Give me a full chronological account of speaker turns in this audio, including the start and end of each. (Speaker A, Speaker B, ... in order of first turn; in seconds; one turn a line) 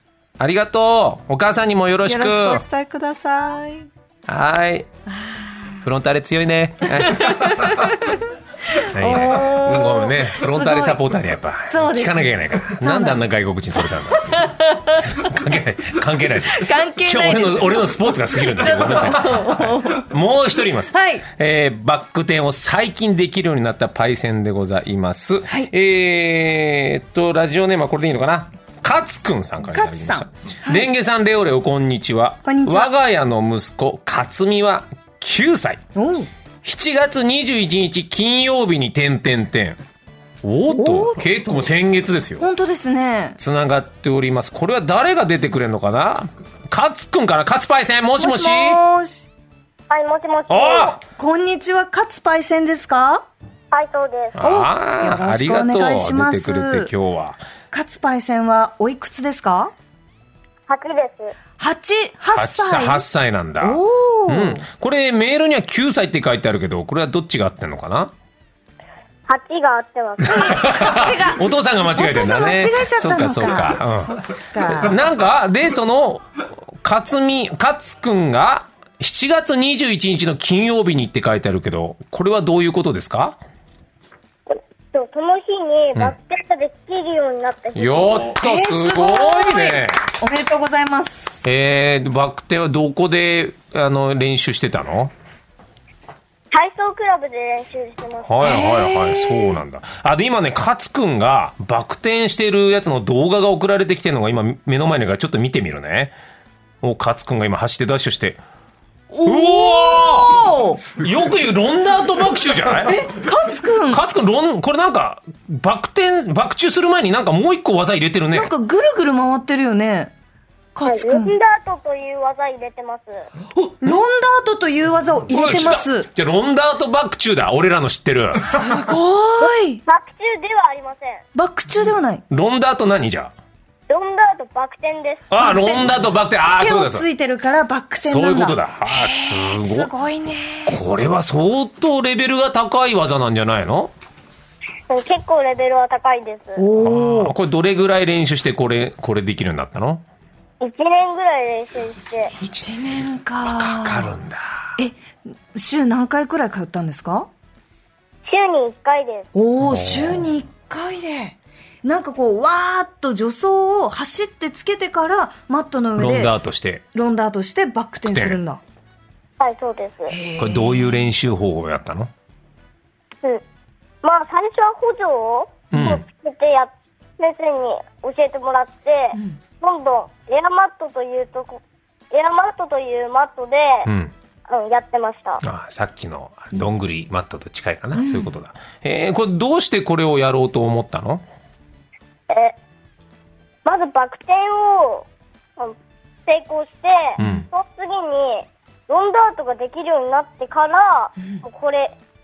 Speaker A: 0.4-2.6
Speaker B: 2.0-3.9
Speaker A: 4.3-4.9
Speaker B: 5.1-5.8
Speaker A: 5.8-7.9
Speaker B: 7.0-11.0
Speaker A: 8.8-35.8
Speaker B: 11.7-13.3
Speaker B: 13.8-15.3
Speaker B: 16.4-20.1
Speaker B: 20.9-21.3
Speaker B: 29.7-30.9
Speaker B: 32.4-32.9
Speaker B: 35.9-36.3
Speaker A: 36.6-39.8
Speaker A: 40.4-42.5
Speaker B: 40.7-41.6
Speaker B: 42.4-43.4
Speaker A: 43.4-48.8
Speaker B: 48.2-49.3
Speaker C: 49.9-51.0
Speaker A: 50.5-51.0
Speaker B: 51.1-53.2
Speaker C: 53.7-54.4
Speaker A: 54.4-57.4
Speaker B: 54.4-56.9
Speaker B: 57.7-59.7
Speaker C: 60.7-61.3
Speaker B: 61.6-63.0
Speaker A: 62.3-68.1
Speaker B: 63.6-64.6
Speaker C: 69.3-70.7
Speaker A: 70.2-83.4
Speaker B: 70.3-75.0
Speaker C: 84.5-88.3
Speaker A: 87.7-90.0
Speaker B: 88.4-91.4
Speaker A: 91.4-95.1
Speaker C: 96.5-98.5
Speaker A: 98.2-106.1
Speaker B: 98.4-99.6
Speaker A: 106.8-108.4
Speaker B: 109.1-110.8
Speaker A: 109.2-113.0
Speaker B: 112.8-114.0
Speaker A: 113.9-118.5
Speaker B: 118.3-120.1
Speaker B: 120.7-121.3
Speaker C: 120.8-123.3
Speaker B: 123.6-126.1
Speaker A: 125.3-128.6
Speaker B: 128.5-129.8
Speaker C: 129.8-131.2
Speaker B: 131.3-132.2
Speaker A: 132.3-133.3
Speaker C: 133.9-135.3
Speaker A: 135.3-137.1
Speaker B: 135.4-136.1
Speaker B: 136.6-140.8
Speaker A: 138.0-139.9
Speaker A: 140.7-143.9
Speaker C: 144.9-146.6
Speaker B: 146.6-147.3
Speaker A: 146.8-150.0
Speaker C: 150.6-152.3
Speaker B: 152.4-154.1
Speaker A: 153.4-154.7
Speaker B: 155.5-157.3
Speaker C: 158.2-159.3
Speaker B: 159.3-166.3
Speaker A: 159.6-160.3
Speaker A: 166.0-166.8
Speaker B: 166.9-168.6
Speaker A: 168.1-168.4
Speaker C: 169.4-170.1
Speaker B: 170.1-171.1
Speaker A: 170.4-172.1
Speaker C: 174.0-183.9
Speaker A: 175.7-176.0
Speaker A: 183.8-184.1
Speaker C: 184.5-185.4
Speaker A: 185.4-191.2
Speaker B: 187.9-188.3
Speaker C: 192.3-192.5
Speaker C: 193.6-201.9
Speaker A: 197.2-197.5